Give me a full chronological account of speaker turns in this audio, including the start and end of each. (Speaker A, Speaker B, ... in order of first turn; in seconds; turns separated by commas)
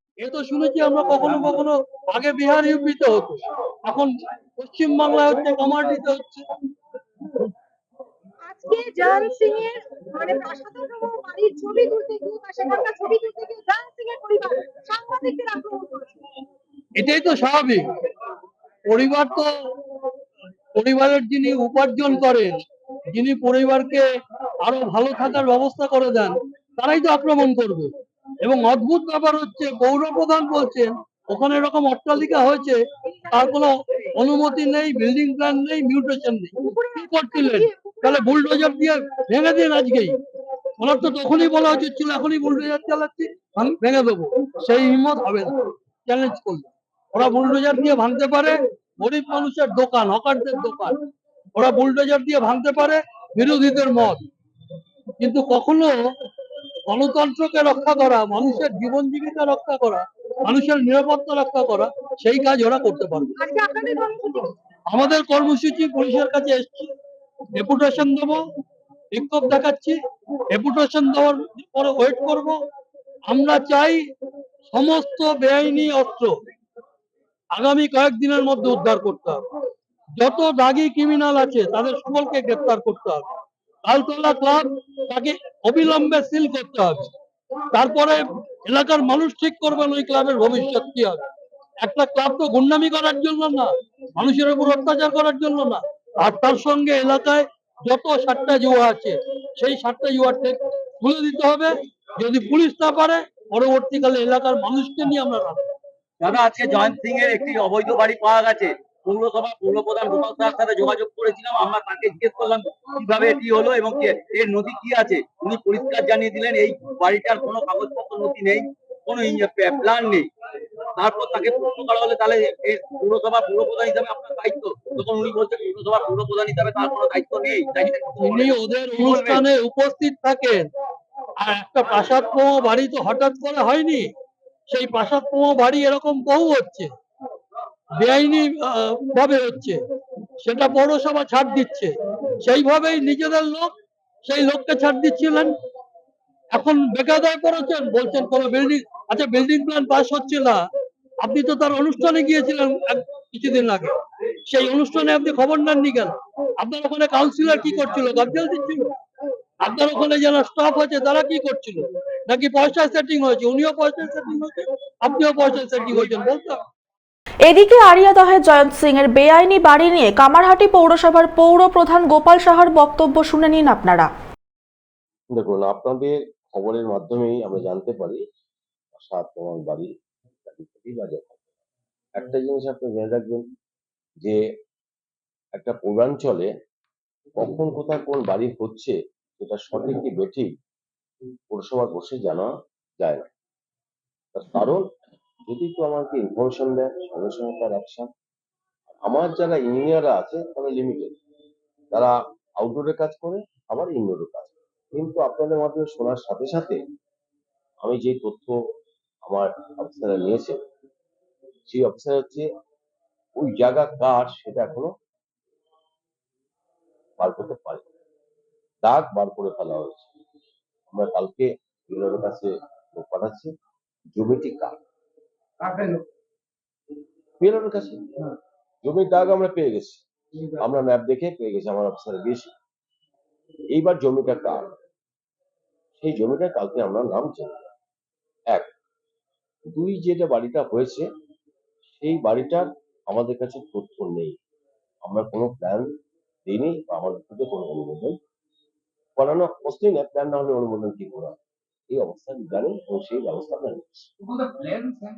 Speaker A: 0.2-6.5, Speaker B: 8.4-16.2, Speaker A: 17.0-17.8, Speaker A: 18.9-19.5, Speaker A: 20.8-22.5, Speaker A: 23.1-24.0, Speaker A: 24.6-27.9, Speaker A: 28.4-32.8, Speaker B: 33.1-33.5, Speaker A: 33.3-40.2, Speaker B: 36.6-38.4, Speaker A: 40.8-45.5, Speaker A: 46.0-51.0, Speaker A: 51.5-54.2, Speaker A: 55.2-56.0, Speaker A: 56.9-63.3, Speaker B: 63.4-64.5, Speaker A: 64.9-66.9, Speaker A: 67.6-68.4, Speaker A: 69.1-70.0, Speaker A: 70.5-72.6, Speaker A: 73.3-74.0, Speaker A: 74.7-76.3, Speaker A: 77.5-79.5, Speaker A: 80.2-83.2, Speaker A: 83.8-87.1, Speaker A: 87.7-91.2, Speaker A: 91.8-105.6, Speaker C: 106.2-120.3, Speaker C: 121.0-129.4, Speaker A: 128.2-130.7, Speaker A: 131.4-134.1, Speaker A: 134.7-136.9, Speaker A: 138.0-139.8, Speaker A: 140.4-143.7, Speaker A: 144.2-145.5, Speaker A: 146.5-150.6, Speaker A: 151.2-153.9, Speaker A: 154.5-158.9, Speaker A: 159.6-166.6, Speaker D: 167.4-174.1, Speaker E: 175.3-178.2, Speaker E: 178.9-179.9, Speaker E: 180.4-181.4, Speaker E: 182.2-183.4, Speaker E: 185.5-186.5, Speaker E: 187.3-190.5, Speaker E: 191.5-193.3, Speaker E: 194.3-194.8, Speaker E: 195.4-198.1, Speaker E: 199.0-201.1, Speaker E: 201.9-206.8, Speaker E: 207.8-208.6, Speaker E: 209.2-210.6, Speaker E: 211.7-212.5, Speaker E: 213.4-214.9, Speaker E: 217.2-217.8, Speaker E: 218.8-220.1, Speaker E: 220.9-223.5, Speaker E: 224.1-224.7, Speaker E: 225.7-226.0, Speaker E: 227.4-228.0, Speaker E: 228.8-230.0, Speaker E: 230.6-232.5, Speaker E: 233.7-234.7, Speaker E: 236.0-237.7, Speaker E: 239.7-241.1, Speaker E: 241.9-244.3, Speaker E: 245.0-245.9, Speaker E: 246.4-248.2, Speaker E: 249.2-251.3, Speaker E: 251.9-254.5